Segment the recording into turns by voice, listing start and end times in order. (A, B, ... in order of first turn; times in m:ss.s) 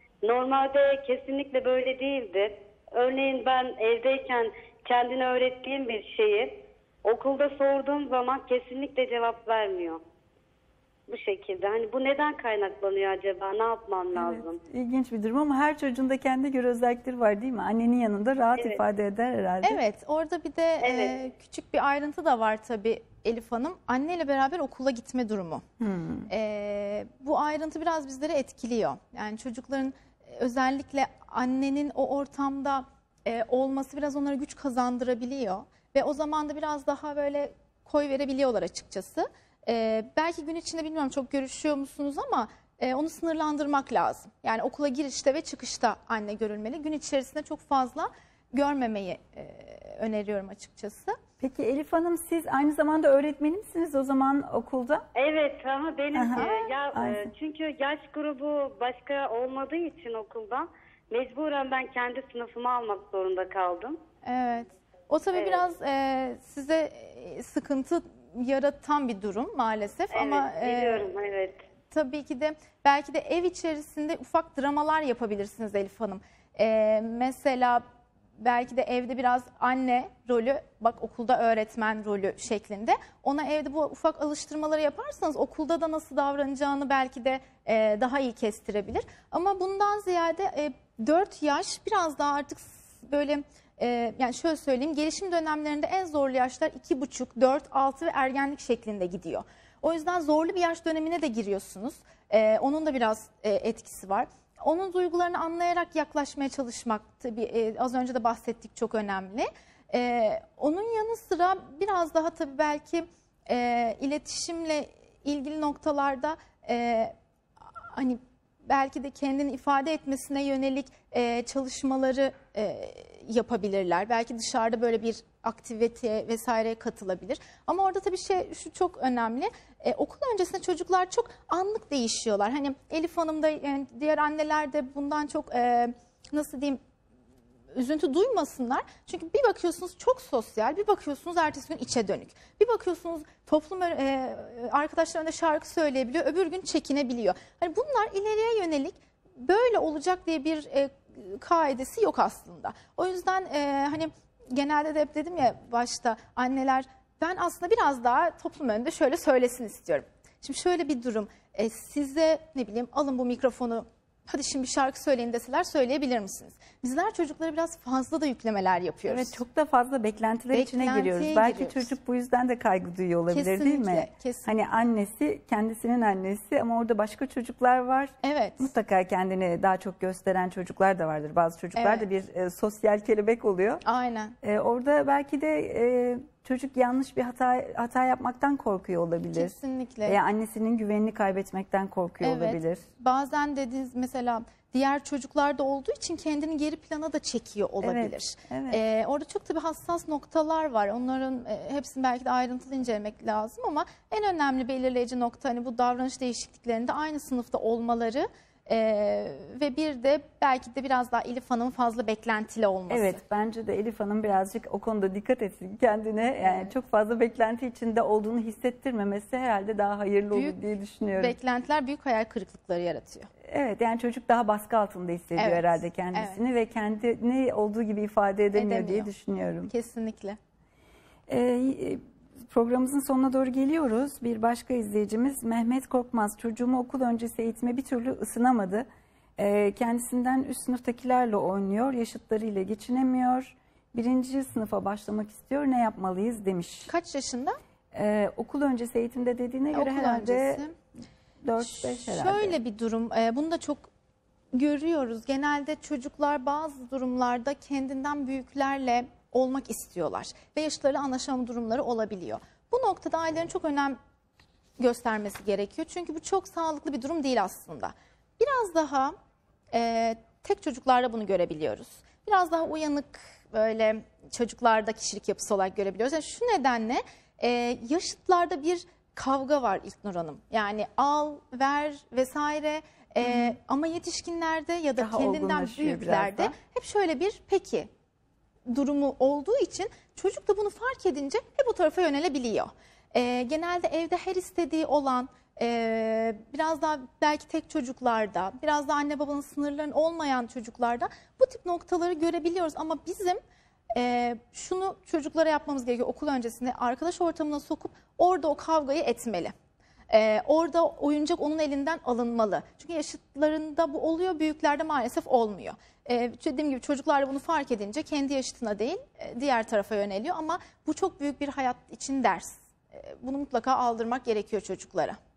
0:00.2-0:06.5 A
0:07.0-0:10.0 A
0:11.1-0:14.6 A
0:14.1-0:19.8 B
0:19.6-0:25.6 C
0:20.8-0:21.2 A
0:25.8-0:26.3 B
0:26.3-0:51.2 C
0:51.4-0:55.0 B
0:55.1-1:04.0 A
0:56.1-0:57.3 B
0:56.4-0:56.7 C
1:04.2-1:11.1 C
1:05.4-1:05.6 A
1:10.1-1:11.6 A
1:11.9-1:17.8 C
1:18.4-1:57.1 C
1:57.9-2:16.8 C
2:17.7-2:49.4 C
2:49.1-3:03.8 B
2:50.5-2:51.9 C
2:53.3-2:54.5 C
2:58.2-2:58.7 C
3:01.8-3:02.0 C
3:03.8-3:04.3 C
3:04.4-3:12.8 B
3:09.3-3:10.2 C
3:12.2-3:33.2 C
3:17.8-3:18.8 B
3:32.9-3:41.4 B
3:36.4-3:36.7 C
3:40.3-3:40.6 C
3:41.1-3:43.3 C
3:43.4-3:49.7 B
3:45.4-3:46.4 C
3:48.5-3:49.1 C
3:49.7-3:50.4 C
3:51.3-4:06.9 B
4:06.9-4:07.6 C
4:07.9-4:10.6 B
4:09.7-4:10.7 C
4:11.4-4:12.6 B
4:11.6-4:13.9 C
4:14.5-4:24.0 C
4:24.8-4:29.2 C
4:29.7-4:47.9 C
4:43.2-4:43.5 B
4:45.0-4:46.6 B
4:48.7-5:03.4 C
5:03.9-5:09.5 C
5:10.1-5:25.2 C